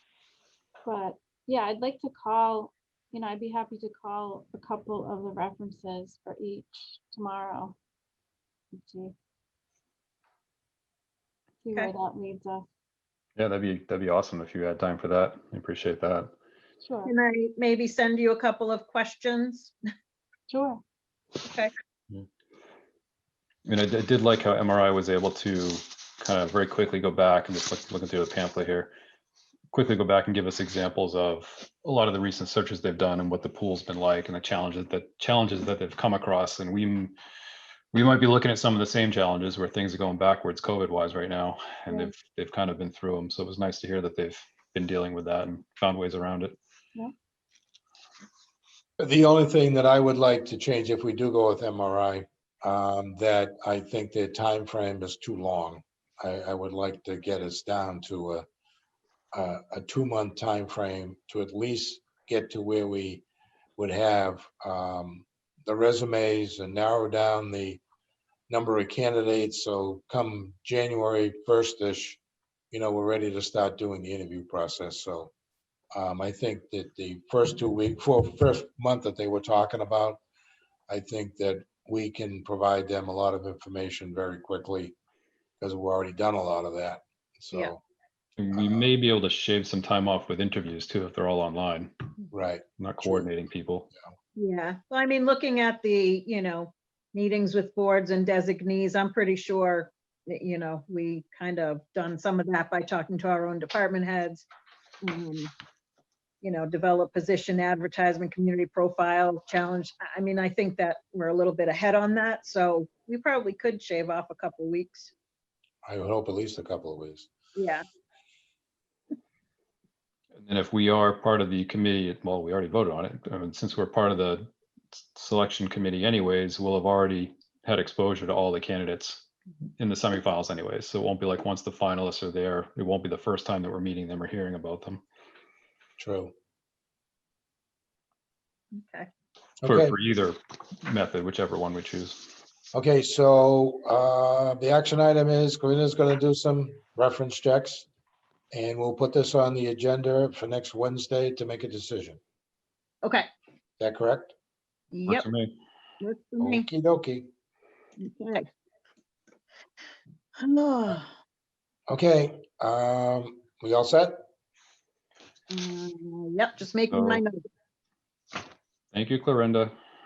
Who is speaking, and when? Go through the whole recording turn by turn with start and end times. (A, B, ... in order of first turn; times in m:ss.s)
0:00.8-0:07.8 A
0:08.7-0:09.1 A
0:11.6-0:12.7 A
0:13.4-0:16.3 B
0:16.8-0:17.1 A
0:17.0-0:19.7 C
0:20.5-0:20.8 A
0:21.4-0:21.7 C
0:23.6-0:28.9 B
0:29.7-0:37.2 B
0:37.9-0:46.6 B
0:49.0-0:58.4 D
0:59.3-1:03.2 D
1:03.8-1:07.8 D
1:08.5-1:12.2 D
1:12.7-1:15.3 D
1:15.9-1:20.2 D
1:20.9-1:25.0 D
1:25.6-1:27.8 D
1:28.4-1:31.9 B
1:28.5-1:28.9 D
1:32.3-1:33.3 D
1:32.8-1:33.9 B
1:34.4-1:44.4 C
1:45.0-1:45.5 C
1:46.4-1:55.1 C
1:55.8-1:57.3 D
1:57.6-1:57.8 C
2:00.4-2:09.3 B
2:09.8-2:15.0 B
2:16.0-2:16.3 D
2:18.7-2:19.1 C
2:19.6-2:19.9 D
2:19.6-2:22.3 B
2:22.7-2:27.8 D
2:28.5-2:32.2 D
2:33.0-2:33.3 C
2:33.8-2:34.3 D
2:34.9-2:35.2 C
2:35.1-2:35.5 B
2:36.0-2:36.7 C
2:36.4-2:37.3 D
2:38.0-2:38.5 C
2:40.4-2:41.1 C
2:41.9-2:44.2 D
2:45.5-2:47.4 C
2:46.9-2:47.2 B
2:48.9-2:49.7 B